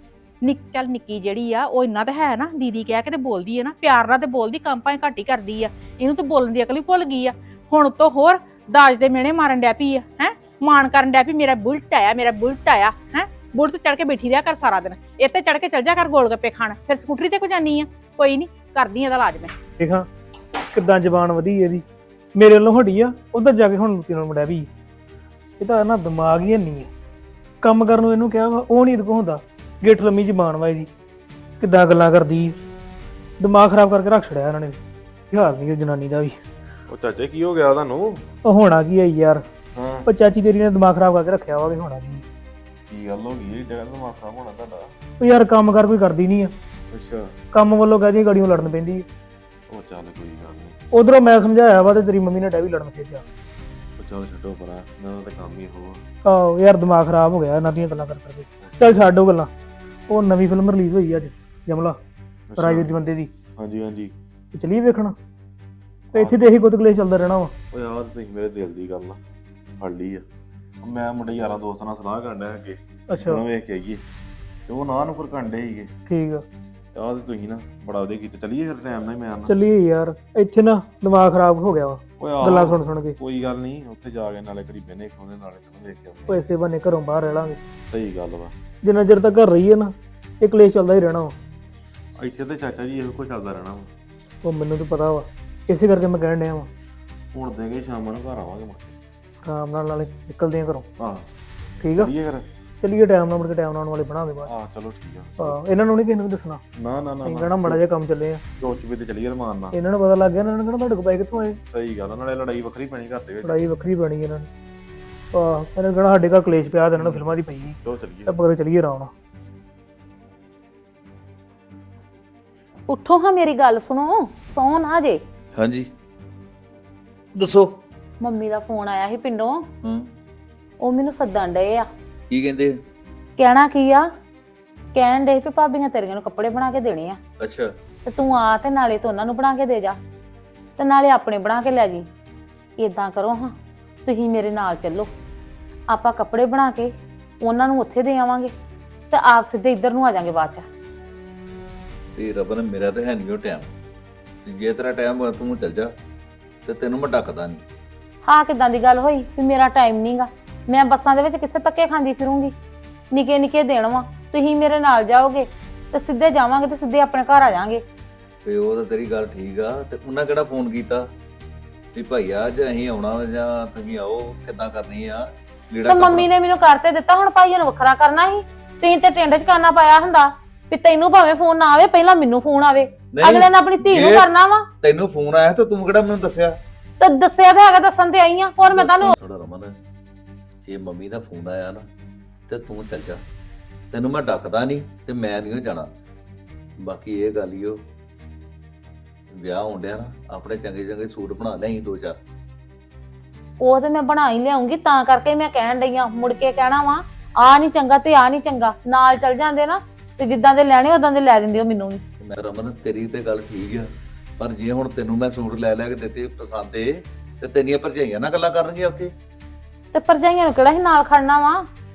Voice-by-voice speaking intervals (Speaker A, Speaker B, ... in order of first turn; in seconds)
Speaker A: 0.4-19.5
Speaker B: 19.8-20.1, 20.7-21.8, 22.4-24.7, 25.6-26.9, 27.6-30.9, 31.6-32.6, 33.4-34.8, 35.3-36.4, 38.5-39.4, 40.1-42.2, 45.2-46.5, 47.5-49.1, 50.9-53.2, 56.2-59.5, 60.1-62.0, 62.6-63.3, 64.5-65.2, 66.1-67.5, 73.1-73.4, 76.1-76.4, 79.5-83.2, 86.3-87.6, 88.8-91.3, 94.4-96.7, 99.4-100.9, 101.8-102.1, 102.8-104.5, 105.4-106.6, 107.2-108.4, 109.7-111.6, 113.4-114.5, 115.3-119.1
Speaker C: 36.9-38.2, 39.8-40.1, 42.9-44.9, 46.9-47.3, 49.7-50.8, 54.0-56.0, 58.6-59.1, 62.5-63.0, 63.6-64.1, 66.1-66.4, 67.7-69.2, 69.8-70.2, 70.8-74.0, 74.7-75.9, 76.9-79.6, 82.2-86.4, 87.9-88.5, 92.2-93.9, 97.3-99.0, 101.0-101.2, 102.0-102.5, 104.5-105.6, 106.8-107.8, 108.6-109.8, 111.7-113.6, 117.0-118.4
Speaker D: 122.9-125.2, 128.2-129.6, 130.8-131.9, 133.4-134.1, 134.9-137.2, 138.1-140.0, 140.8-142.1, 142.8-143.5, 144.1-145.1, 145.9-146.9, 147.4-148.5, 149.1-150.7, 158.3-162.5, 163.1-167.8, 175.8-184.7, 187.0-189.1, 203.6-212.0, 219.9-221.7
Speaker E: 125.5-125.9, 127.4-127.7, 132.3-132.8, 137.4-137.7, 152.2-153.7, 154.4-155.9, 156.7-157.6, 168.4-171.1, 171.9-176.3, 183.1-184.3, 184.8-186.5, 188.7-189.7, 190.6-191.8, 192.5-193.2, 193.9-195.9, 196.8-197.8, 199.3-202.2, 212.2-213.9, 214.4-219.1